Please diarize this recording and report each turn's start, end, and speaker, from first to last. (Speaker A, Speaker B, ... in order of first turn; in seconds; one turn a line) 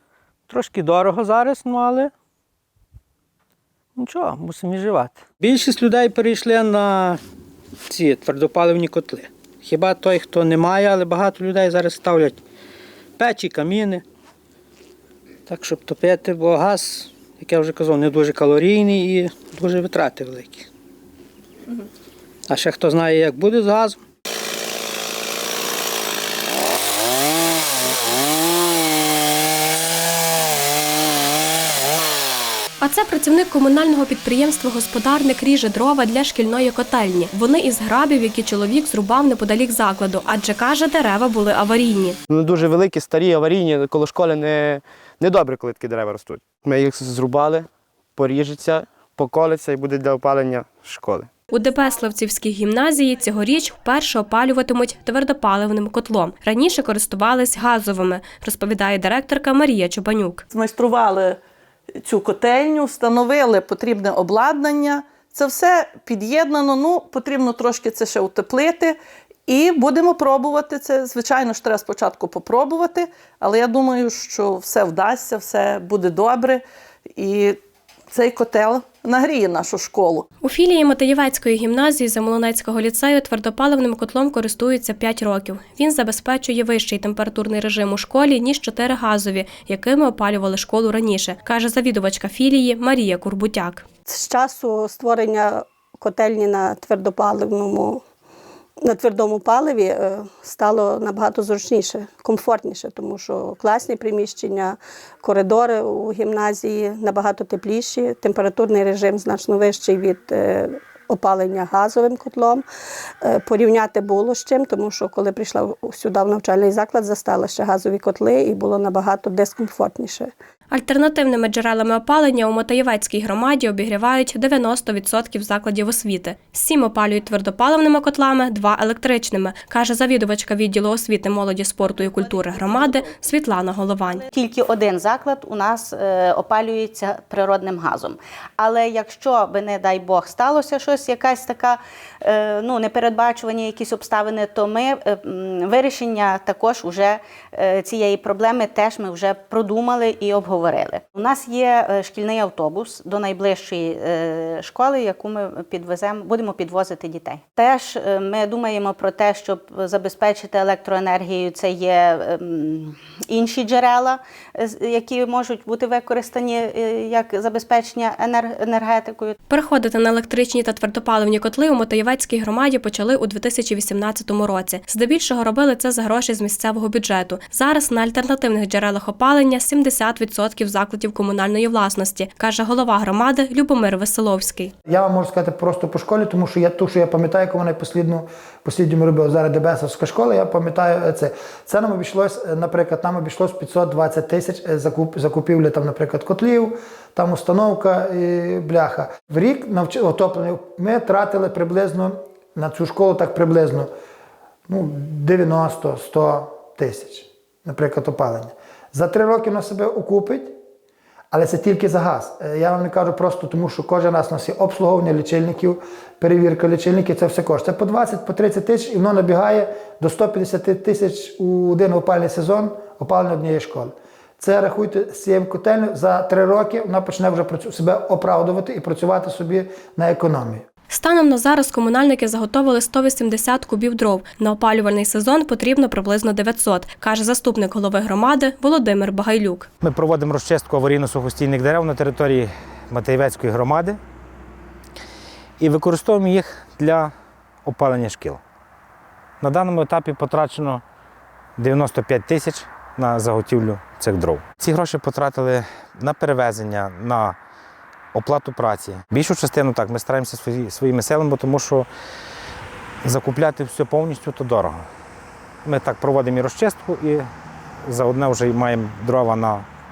Speaker A: 0.5-2.1
Speaker A: 4.0-7.2
Speaker A: 7.9-12.4
Speaker A: 13.2-14.0
Speaker A: 15.5-20.7
Speaker A: 22.5-24.0
Speaker B: 32.8-42.2
Speaker C: 42.3-47.7
Speaker C: 48.2-51.2
Speaker B: 51.5-60.5
Speaker D: 60.5-61.4
Speaker D: 62.0-69.0
Speaker D: 69.5-76.6
Speaker D: 77.2-77.6
Speaker D: 78.1-80.3
Speaker B: 80.4-93.8
Speaker E: 94.1-98.0
Speaker E: 98.8-112.6
Speaker E: 113.2-120.3
Speaker B: 120.7-134.2
Speaker F: 134.3-169.4
Speaker B: 169.5-184.7
Speaker G: 184.9-203.9
Speaker G: 204.7-210.5
Speaker G: 211.3-230.6
Speaker B: 230.9-239.7
Speaker H: 239.8-244.0
Speaker H: 245.6-247.1
Speaker H: 247.7-248.4
Speaker H: 249.4-250.8
Speaker H: 251.6-257.4
Speaker H: 258.1-261.9
Speaker H: 263.0-264.9
Speaker H: 265.6-267.3
Speaker H: 267.8-269.7